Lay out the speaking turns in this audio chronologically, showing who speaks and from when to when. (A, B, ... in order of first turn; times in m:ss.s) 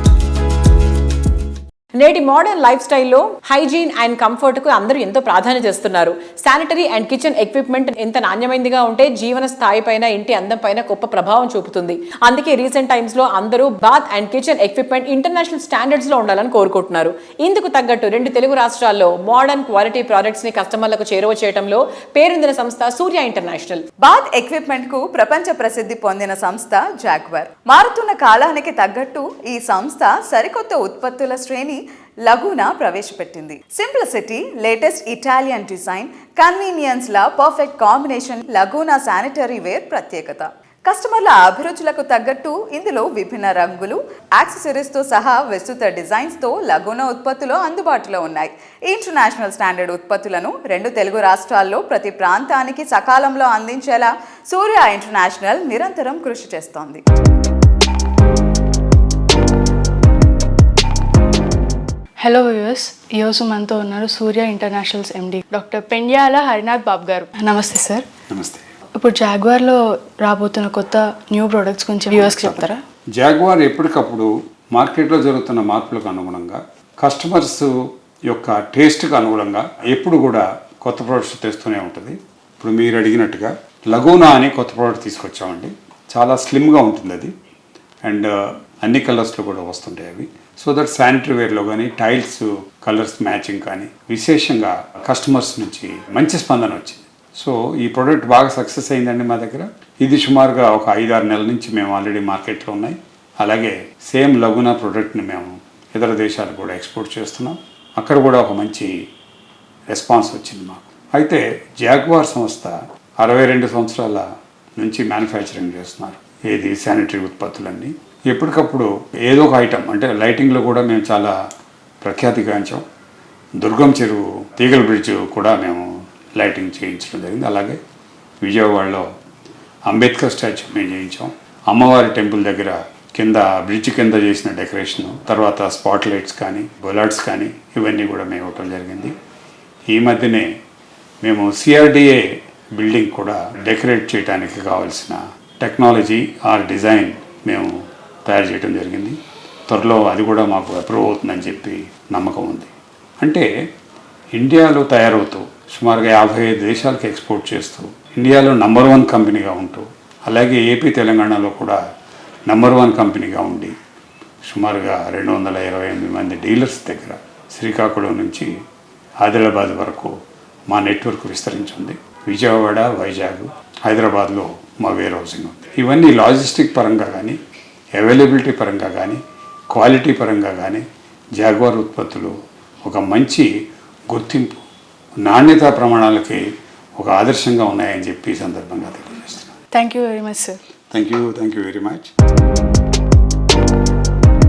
0:02.0-0:23.9 A
0:24.0-0:57.0 B
1:02.2-1:08.0 C
1:08.3-1:08.6 D
1:09.0-1:12.8 C
1:12.1-1:17.7 D
1:18.3-1:27.3 D
1:28.1-1:28.3 D
1:28.8-1:48.9 D
1:49.9-1:54.2 D
1:54.8-2:01.3 D
2:02.0-2:02.8 D
2:03.6-2:05.9 D
2:06.4-2:07.8 D
2:08.4-2:09.0 D
2:09.9-2:19.1 D
2:19.9-2:20.5 D
2:21.2-2:22.2 D
2:22.8-2:27.7 D
2:28.3-2:29.2 D
2:29.7-2:32.7 D
2:34.4-2:41.8 D
2:42.5-2:43.8 D
2:44.5-2:48.5 D
2:49.2-2:50.1 D
2:50.7-2:57.4 D
2:58.0-2:59.2 D
2:59.7-3:00.8 D
3:01.4-3:02.3 D
3:02.8-3:03.5 D
3:04.1-3:04.6 D
3:05.2-3:06.4 D
3:07.0-3:09.5 D
3:09.7-3:10.6 C
3:10.9-3:12.1 D